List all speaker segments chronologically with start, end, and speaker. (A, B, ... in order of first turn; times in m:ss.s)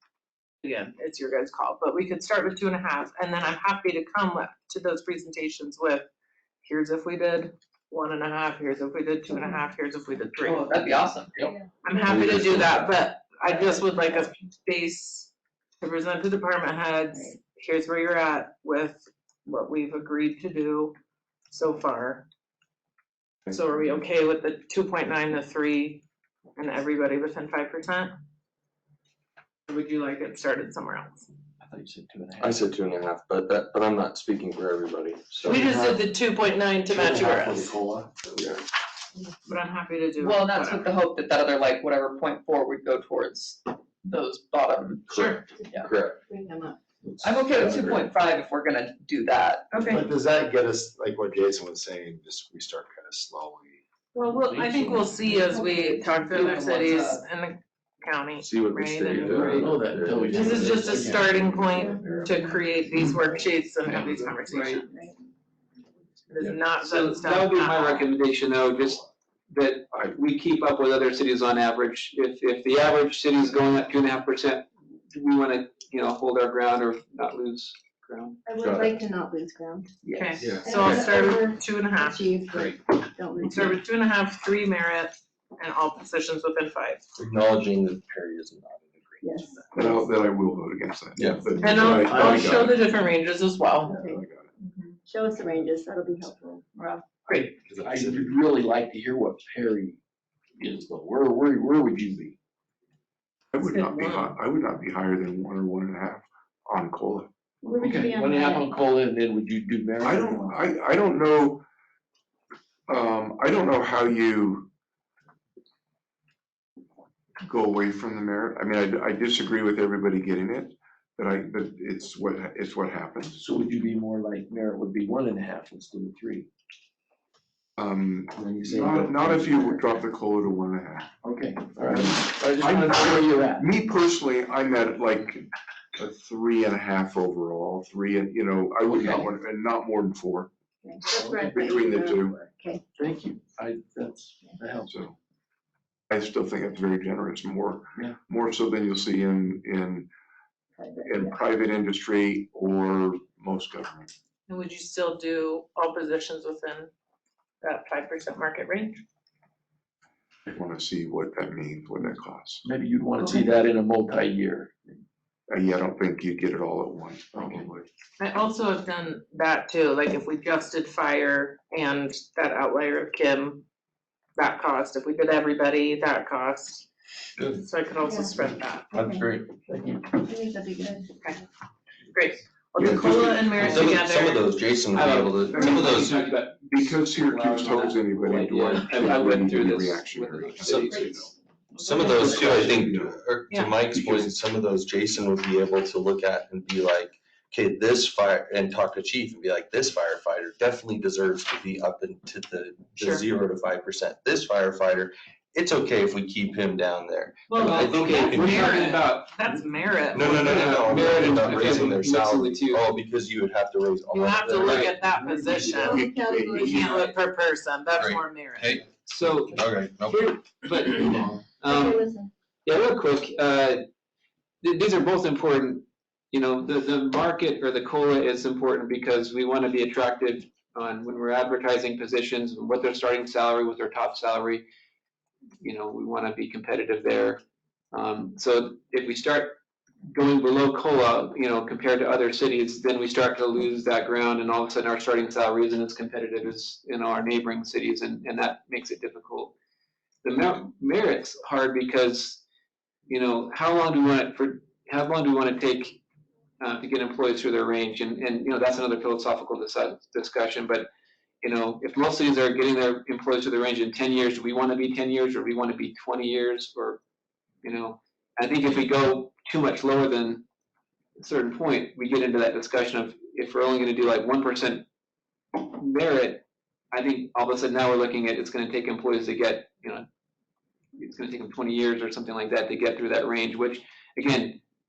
0:00.6-0:06.1 A
0:06.6-0:10.9 A
0:09.3-0:09.6 B
0:10.4-0:11.3 C
0:11.4-0:12.1 B
0:11.8-0:20.9 A
0:12.1-0:12.9 D
0:21.5-0:22.2 A
0:23.5-0:26.0 A
0:26.6-0:28.1 A
0:29.7-0:31.3 A
0:31.6-0:32.6 E
0:32.4-0:36.0 D
0:35.4-0:37.8 A
0:37.3-0:38.0 F
0:38.2-0:38.6 D
0:39.4-0:40.9 A
0:40.2-0:45.1 C
0:45.1-0:45.4 A
0:45.1-0:46.2 D
0:45.4-0:46.8 B
0:47.2-0:48.0 D
0:47.2-0:50.0 C
0:47.3-0:47.9 F
0:49.7-0:53.7 F
0:54.1-0:59.6 A
0:54.3-0:55.4 E
0:54.8-0:56.4 B
0:56.3-0:57.1 C
0:58.4-1:01.2 D
0:59.0-1:02.5 E
1:00.2-1:04.9 A
1:01.6-1:02.7 B
1:03.9-1:04.2 E
1:04.5-1:04.8 G
1:04.7-1:05.1 B
1:06.3-1:08.1 A
1:06.8-1:18.4 G
1:18.4-1:19.9 B
1:18.6-1:19.0 D
1:20.1-1:22.4 A
1:20.1-1:21.1 D
1:20.6-1:23.8 B
1:23.4-1:27.0 A
1:27.2-1:30.0 D
1:29.2-1:29.6 B
1:29.7-1:32.7 H
1:31.2-1:31.6 D
1:31.6-1:33.9 A
1:33.8-1:34.2 B
1:34.0-1:34.5 H
1:35.0-1:36.7 B
1:37.3-1:37.5 A
1:37.3-1:40.0 E
1:37.6-1:38.4 F
1:40.6-1:42.3 E
1:43.5-1:47.3 H
1:43.6-1:44.3 A
1:47.6-1:48.7 B
1:47.7-1:50.6 E
1:50.0-1:51.6 H
1:52.9-1:54.7 H
1:57.4-2:03.4 H
2:03.4-2:06.5 E
2:07.8-2:11.1 H
2:08.4-2:09.9 E
2:11.2-2:13.7 E
2:11.9-2:20.5 H
2:18.8-2:19.4 E
2:20.8-2:22.8 B
2:21.1-2:21.4 E
2:21.3-2:22.4 H
2:23.0-2:25.0 E
2:24.9-2:25.1 H
2:26.1-2:30.1 H
2:30.8-2:31.4 B
2:31.0-2:34.1 H
2:34.5-2:36.9 A
2:37.6-2:39.0 A
2:40.5-2:42.6 H
2:42.6-2:45.0 E
2:45.5-2:47.9 H
2:47.3-2:47.7 E
2:48.2-2:53.6 A
2:54.4-2:56.8 A
2:57.5-2:58.9 A
2:58.0-2:58.3 B
2:58.9-2:59.3 B
2:58.9-2:59.6 D
3:00.1-3:01.4 B
3:02.1-3:04.5 A
3:02.8-3:03.7 H
3:02.8-3:06.2 D
3:03.6-3:04.0 G
3:04.9-3:11.3 G
3:05.5-3:13.2 H
3:11.8-3:28.9 D
3:13.9-3:14.4 H
3:23.0-3:23.2 A
3:27.5-3:31.3 A
3:27.6-3:29.3 G
3:30.1-3:35.0 D
3:30.1-3:32.8 G
3:34.1-3:38.8 A
3:34.6-3:35.0 G
3:35.2-3:37.2 H
3:35.6-3:37.0 B
3:38.0-3:38.8 D
3:39.0-3:42.1 G
3:39.5-3:41.3 D
3:41.6-3:42.3 B
3:42.6-3:43.8 G
3:44.6-3:54.6 G
3:55.6-3:57.4 G
3:57.9-3:59.5 G
4:00.1-4:09.5 G
4:10.2-4:12.4 G
4:13.1-4:16.0 G
4:16.6-4:20.9 G
4:21.4-4:27.0 G
4:27.6-4:30.4 G
4:31.2-4:34.8 G
4:35.6-4:40.1 G
4:41.0-4:44.6 G